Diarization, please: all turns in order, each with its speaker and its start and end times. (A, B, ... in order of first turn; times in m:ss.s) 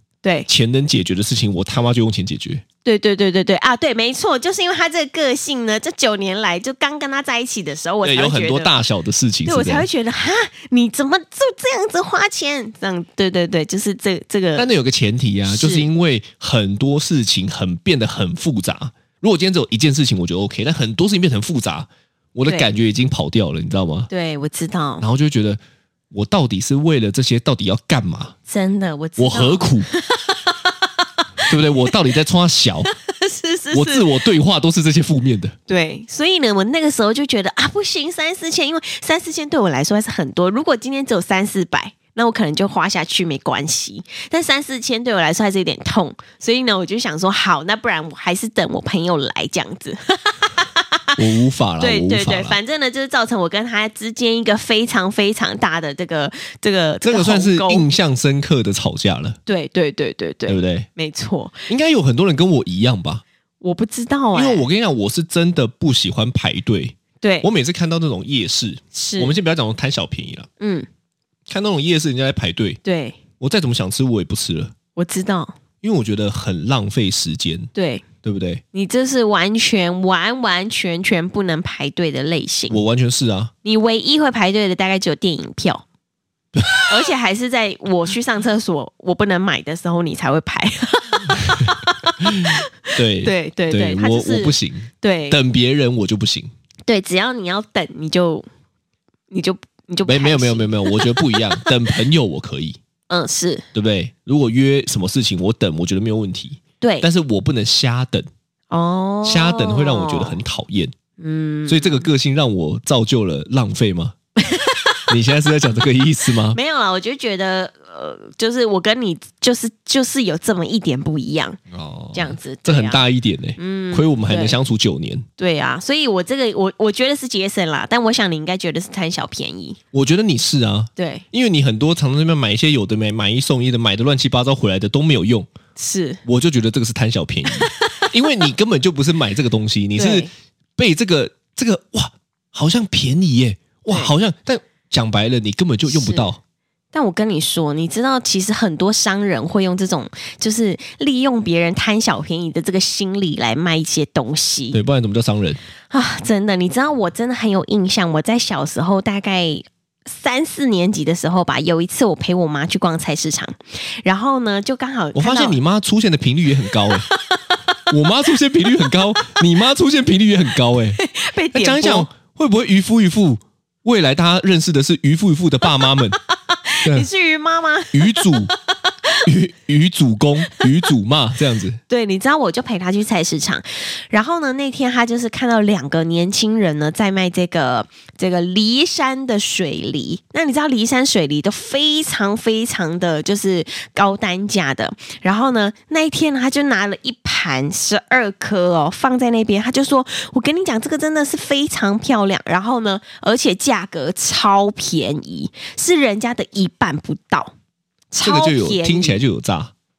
0:00.2-0:00.5 A
0:00.5-0:02.6 B
0:02.8-0:08.8 A
0:08.0-0:09.9 B
0:09.4-0:14.7 A
0:14.6-0:24.1 B
0:15.5-0:15.9 A
0:24.1-0:25.0 A
0:25.0-0:25.6 B
0:26.1-0:28.3 B
0:28.5-0:31.9 A
0:29.2-0:29.9 B
0:31.5-0:32.9 B
0:32.9-0:34.1 A
0:33.7-0:35.5 B
0:35.7-0:51.2 A
0:51.2-0:52.6 B
0:51.8-0:57.9 A
0:57.0-0:59.4 B
0:59.4-1:01.7 A
1:00.4-1:00.9 B
1:01.7-1:03.2 B
1:03.6-1:04.6 A
1:04.3-1:10.5 B
1:07.2-1:07.5 A
1:08.9-1:09.4 A
1:10.6-1:10.9 A
1:11.5-1:12.8 B
1:12.8-1:13.2 A
1:13.4-1:14.7 B
1:15.0-1:15.5 A
1:15.8-1:17.7 B
1:17.7-1:18.0 A
1:18.2-1:18.6 B
1:18.7-1:22.8 A
1:22.7-1:23.5 B
1:23.6-1:25.8 A
1:26.5-1:26.8 B
1:26.9-1:35.4 A
1:31.6-1:36.5 B
1:36.9-1:38.4 A
1:39.3-1:41.7 A
1:40.0-1:42.8 B
1:43.1-1:43.6 A
1:43.7-1:48.3 B
1:46.8-1:47.1 A
1:48.7-1:50.4 A
1:49.2-1:50.9 B
1:51.2-1:52.1 A
1:51.7-1:54.1 B
1:54.4-1:55.1 A
1:55.1-1:56.6 B
1:56.5-2:01.6 A
2:01.7-2:05.2 B
2:02.1-2:03.0 A
2:03.6-2:04.6 A
2:05.4-2:09.8 A
2:09.9-2:15.5 B
2:11.0-2:11.2 A
2:15.8-2:16.2 A
2:16.2-2:26.4 B
2:17.5-2:18.1 A
2:20.0-2:20.3 A
2:25.9-2:26.3 A
2:26.9-2:34.8 A
2:34.7-2:35.6 B
2:35.9-2:45.6 A
2:45.1-2:47.1 B
2:46.9-2:47.4 A
2:47.9-2:51.0 B
2:51.0-2:52.1 A
2:51.5-2:56.2 B
2:56.5-2:59.2 A
2:57.9-2:58.5 B
2:59.2-3:01.8 B
3:01.9-3:27.5 A
3:28.1-3:29.2 A
3:28.2-3:29.7 B